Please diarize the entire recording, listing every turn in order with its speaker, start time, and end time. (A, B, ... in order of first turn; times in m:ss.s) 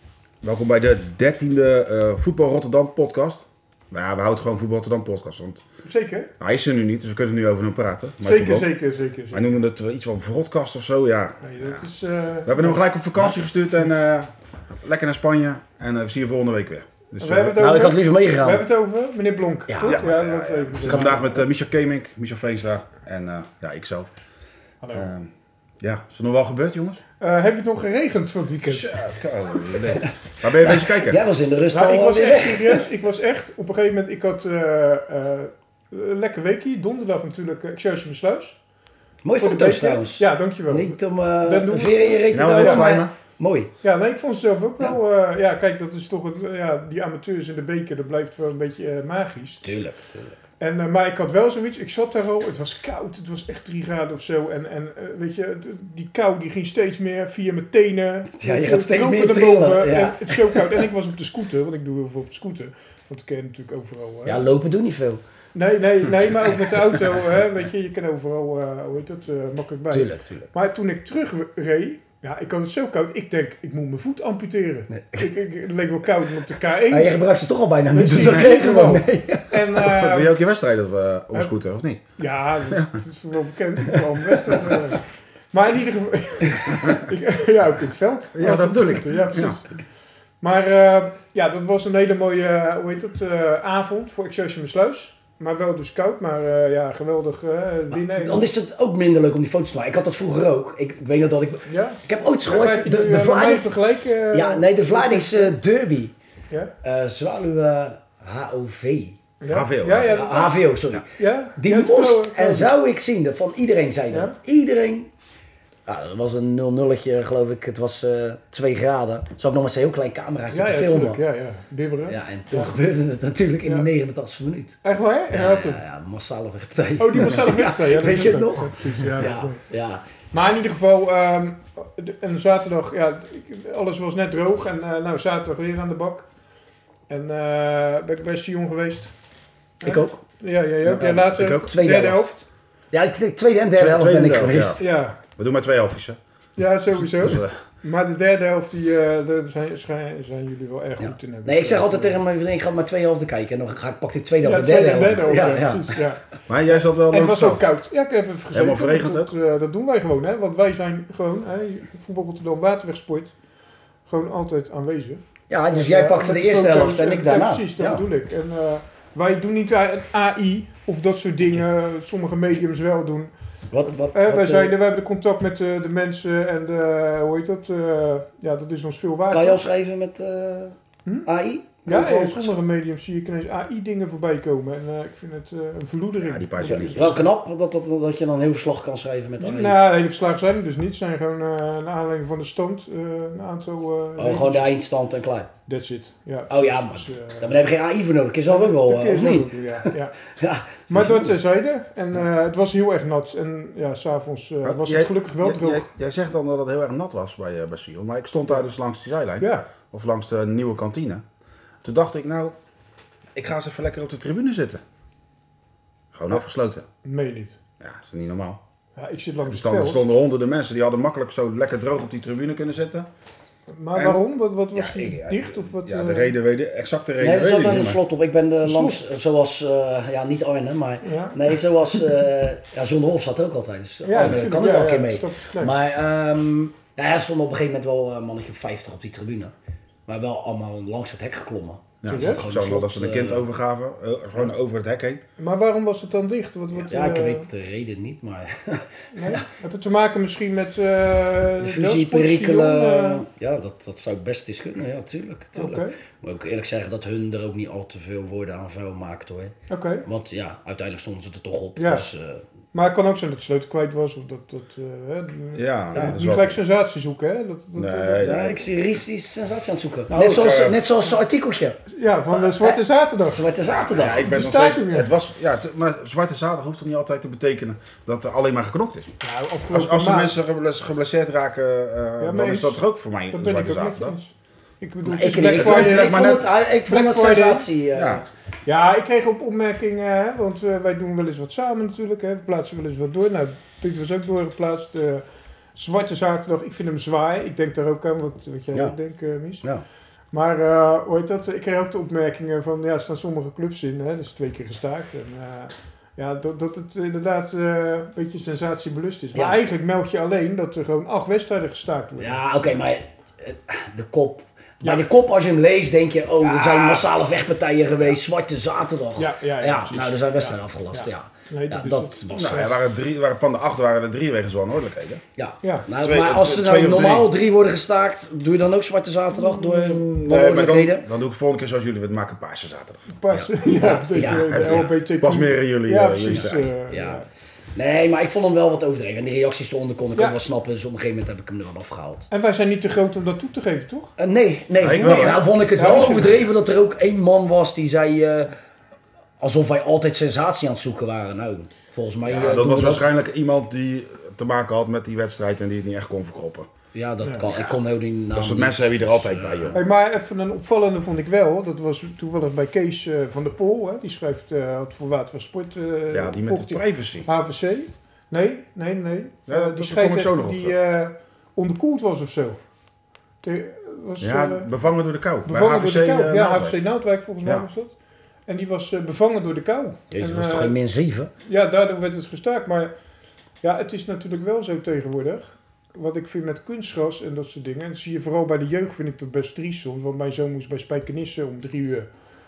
0:00.4-0:05.6 A
0:05.8-0:06.3 B
0:06.4-0:08.7 A
0:08.2-0:09.5 B
0:09.3-0:11.8 A
0:11.4-0:12.8 B
0:12.4-0:17.6 A
0:17.2-0:21.4 B
0:17.6-0:18.6 C
0:19.7-0:20.0 C
0:19.8-0:24.1 A
0:20.8-0:21.1 C
0:24.8-0:25.1 B
0:24.9-0:27.0 A
0:27.2-0:29.0 B
0:28.6-0:31.2 A
0:29.9-0:32.8 C
0:31.7-0:38.6 B
0:39.2-0:43.7 C
0:39.4-0:42.9 B
0:42.3-0:43.1 A
0:43.8-0:49.6 B
0:49.6-0:50.4 C
0:50.6-1:04.5 B
0:58.4-1:00.8 C
1:04.2-1:05.2 C
1:05.5-1:17.2 B
1:09.9-1:10.4 C
1:14.9-1:15.3 C
1:16.8-1:19.6 C
1:17.9-1:20.3 B
1:19.8-1:22.0 A
1:22.2-1:29.7 B
1:22.7-1:23.0 A
1:28.3-1:29.6 A
1:30.4-1:38.5 B
1:37.9-1:43.7 C
1:41.6-1:45.5 B
1:44.3-1:46.1 C
1:46.8-1:49.2 C
1:49.4-1:52.7 B
1:49.5-1:50.2 A
1:50.1-1:55.1 C
1:54.1-1:54.4 B
1:55.8-2:01.2 C
2:00.5-2:02.7 B
2:02.1-2:04.8 C
2:04.8-2:05.8 B
2:05.3-2:10.0 C
2:07.0-2:09.6 B
2:10.3-2:16.3 B
2:17.1-2:19.1 B
2:19.8-2:22.4 B
2:19.8-2:20.2 C
2:20.8-2:21.8 A
2:21.0-2:22.3 C
2:22.9-2:24.8 C
2:23.7-2:26.2 A
2:24.8-2:25.2 B
2:26.6-2:32.2 B
2:27.2-2:27.6 A
2:31.0-2:36.0 C
2:34.4-2:43.3 B
2:36.5-2:37.6 A
2:38.5-2:39.3 A
2:44.1-2:53.3 B
2:45.5-2:48.0 C
2:53.7-2:54.7 C
2:53.8-2:59.6 B
2:59.3-3:02.5 C
3:01.8-3:07.3 B
3:06.2-3:07.2 A
3:06.8-3:09.8 C
3:09.4-3:14.7 B
3:14.2-3:15.5 C
3:15.7-3:17.6 B
3:16.5-3:21.3 C
3:18.5-3:20.2 B
3:20.9-3:25.8 B
3:24.6-3:31.2 A
3:29.4-3:29.7 B
3:31.8-3:32.5 A
3:33.3-3:34.8 A
3:36.1-3:36.9 A
3:37.0-3:37.6 B
3:37.8-3:38.6 A
3:39.0-3:40.0 B
3:39.4-3:43.1 A
3:43.7-3:46.3 B
3:43.9-3:44.2 A
3:44.7-3:48.0 A
3:47.2-3:59.5 C
3:48.6-3:49.0 B
3:51.0-3:52.0 B
3:54.0-3:55.7 B
4:00.1-4:03.4 C
4:02.0-4:05.2 A
4:02.1-4:02.5 B
4:05.4-4:07.5 B
4:06.9-4:09.4 C
4:09.1-4:13.2 B
4:11.6-4:22.4 C
4:15.5-4:16.0 B
4:19.7-4:20.0 B
4:21.8-4:22.0 B
4:22.7-4:28.6 B
4:25.5-4:26.6 A
4:27.8-4:28.6 A
4:28.2-4:31.8 C
4:30.1-4:30.8 A
4:31.9-4:33.4 B
4:32.3-4:34.3 C
4:33.7-4:39.1 A
4:34.0-4:35.1 B
4:39.2-4:40.3 B
4:39.7-4:44.2 A
4:42.2-4:47.7 B
4:45.0-4:48.2 C
4:45.4-4:46.5 A
4:47.9-4:48.2 A
4:48.6-4:55.2 B
4:55.7-4:59.6 B
5:00.3-5:12.4 B
5:12.2-5:22.7 C
5:16.5-5:17.0 B
5:19.2-5:22.8 B
5:22.3-5:25.2 A
5:25.4-5:31.1 C
5:25.6-5:25.9 B
5:26.0-5:27.3 A
5:29.5-5:33.0 A
5:33.1-5:37.3 B
5:33.3-5:34.9 C
5:34.5-5:36.7 A
5:36.3-5:37.2 C
5:37.7-5:42.3 C
5:42.3-5:44.1 B
5:44.2-5:48.5 C
5:44.8-5:45.4 A
5:45.0-5:46.4 B
5:49.4-5:53.1 C
5:52.3-5:56.7 A
5:52.3-5:52.8 B
5:56.9-5:59.8 C
5:57.2-5:57.5 B
5:58.3-5:59.8 A
5:59.7-6:12.6 B
6:06.1-6:07.3 A
6:09.5-6:10.7 A
6:13.4-6:14.7 B
6:14.2-6:16.8 A
6:15.4-6:18.0 B
6:18.5-6:20.8 B
6:20.1-6:21.3 C
6:21.4-6:22.9 B
6:23.6-6:32.1 B